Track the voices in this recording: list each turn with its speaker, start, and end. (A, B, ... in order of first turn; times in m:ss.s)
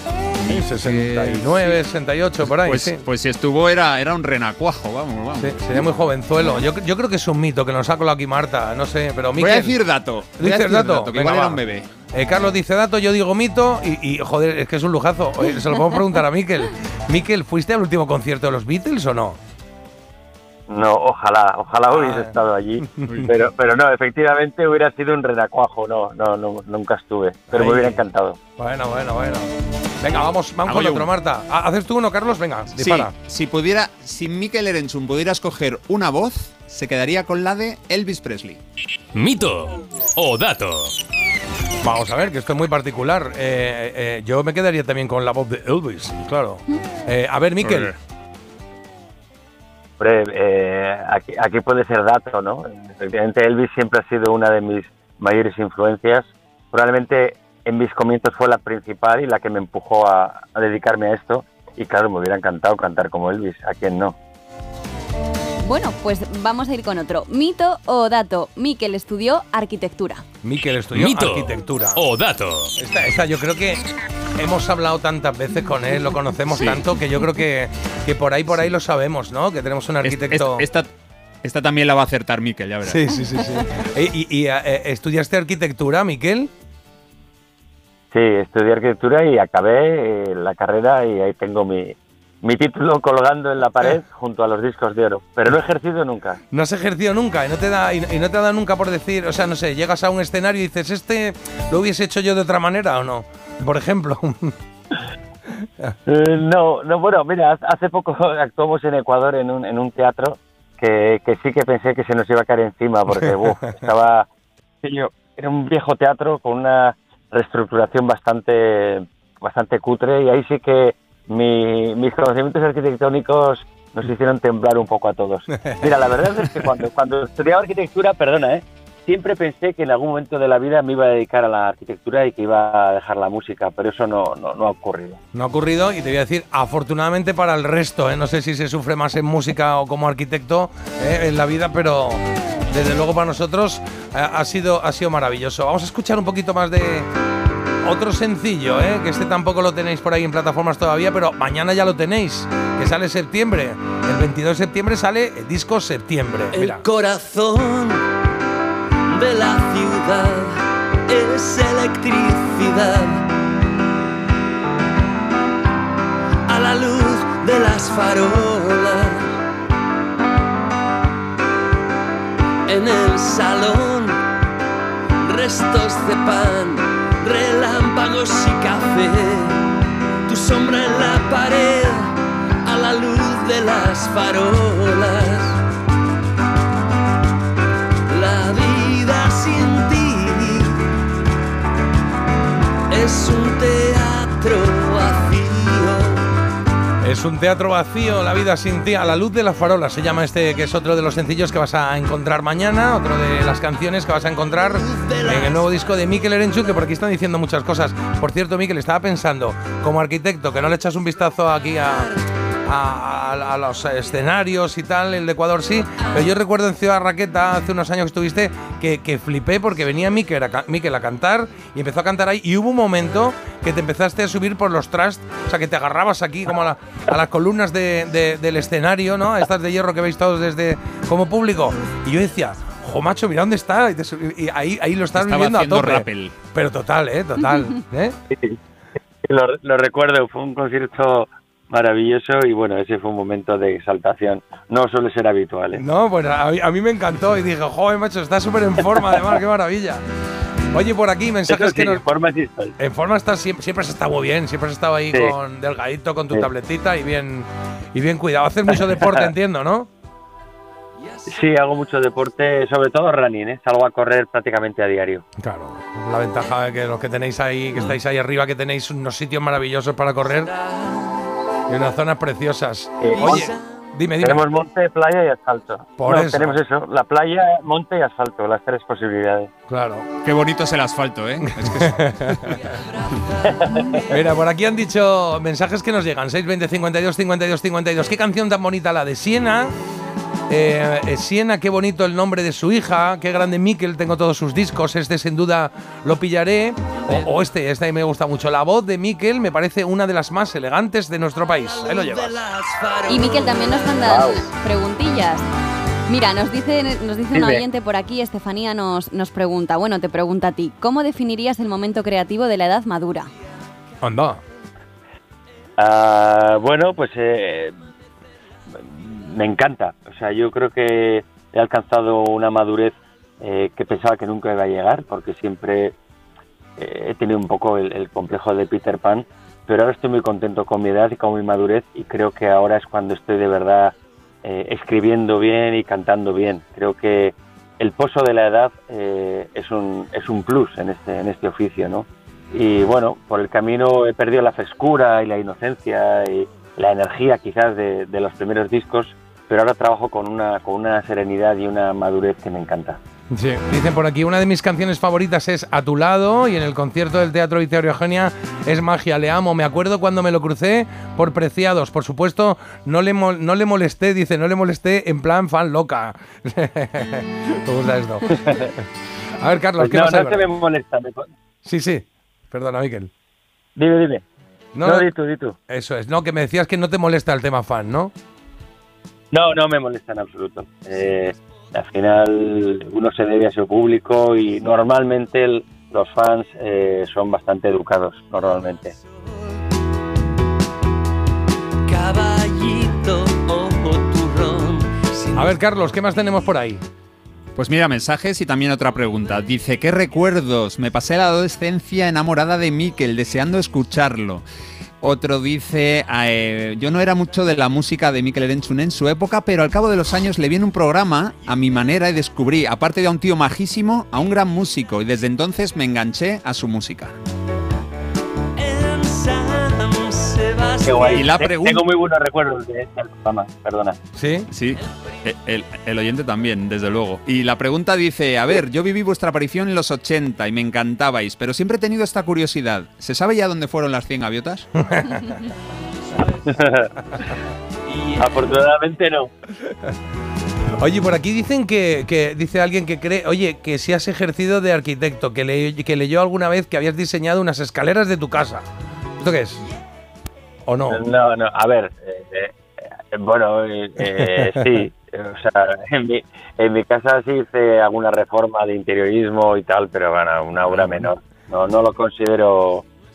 0:00.5-0:01.8 A
0:00.5-0:03.0 B
0:02.4-0:05.9 A
0:05.4-0:09.8 B
0:09.4-0:11.9 A
0:10.4-0:19.4 B
0:20.7-0:28.4 C
0:21.9-0:22.4 B
0:27.5-0:28.0 B
0:28.6-0:33.1 B
0:30.7-0:31.1 A
0:32.8-0:38.6 A
0:39.1-0:41.0 D
0:41.8-0:47.9 B
0:47.6-0:47.9 A
0:50.0-1:04.2 C
1:05.6-1:10.2 E
1:10.4-1:12.0 B
1:10.9-1:12.7 D
1:12.8-1:13.8 B
1:14.4-1:20.6 B
1:16.5-1:16.9 A
1:20.0-1:20.9 A
1:21.4-1:23.1 A
1:22.8-1:26.5 B
1:28.1-1:36.4 C
1:36.5-1:44.5 B
1:46.1-1:54.3 C
1:54.8-2:15.2 C
2:05.6-2:05.9 B
2:15.3-2:27.1 B
2:27.8-2:36.8 B
2:36.5-2:38.1 F
2:39.1-2:43.3 F
2:46.5-2:49.4 F
2:52.7-2:54.2 F
2:55.2-2:59.7 F
3:00.3-3:05.6 F
3:08.1-3:10.9 F
3:12.9-3:16.3 F
3:17.0-3:32.1 B
3:24.7-3:25.6 F
3:32.7-3:58.2 B
3:55.2-3:56.4 A
3:58.3-3:58.6 C
3:59.2-4:05.8 C
4:05.7-4:10.0 B
4:10.7-4:12.0 B
4:11.5-4:12.8 C
4:12.8-4:19.9 B
4:18.9-4:19.3 C
4:21.1-4:21.6 F
4:21.3-4:25.3 C
4:25.4-4:30.5 B
4:30.3-4:31.4 F
4:31.7-4:34.4 B
4:33.0-4:33.5 C
4:33.2-4:33.6 F
4:34.2-4:39.5 C
4:36.0-4:36.6 B
4:39.7-4:40.1 B
4:40.2-4:42.6 A
4:41.6-4:42.6 B
4:42.6-4:44.2 F
4:43.4-4:44.1 C
4:44.1-4:49.7 B
4:50.5-5:02.4 B
5:01.6-5:04.2 F
5:03.1-5:05.4 E
5:04.0-5:04.4 C
5:06.1-5:13.3 E
5:07.3-5:07.6 C
5:14.0-5:14.4 B
5:15.8-5:17.8 C
5:18.7-5:26.0 C
5:26.8-5:53.0 C
5:53.3-6:08.7 B
6:08.3-6:08.8 C
6:09.4-6:10.4 B
6:09.8-6:11.3 C
6:11.6-6:13.1 B
6:13.8-6:14.2 C
6:14.8-6:15.1 B
6:14.8-6:15.6 C
6:15.7-6:18.1 B
6:19.3-6:29.0 C
6:31.9-6:35.6 F
6:35.4-6:36.8 B
6:37.6-6:44.4 A
6:45.0-6:57.1 A
6:58.6-7:01.4 F
7:00.8-7:04.0 C
7:01.2-7:01.8 A
7:04.2-7:04.5 B
7:04.5-7:14.7 A
7:14.8-7:15.3 B
7:16.4-7:16.9 C
7:17.9-7:18.6 F
7:18.2-7:19.3 C
7:20.8-7:28.6 B
7:29.2-7:29.6 B
7:30.7-7:31.0 B
7:30.9-7:42.8 C
7:34.2-7:34.7 B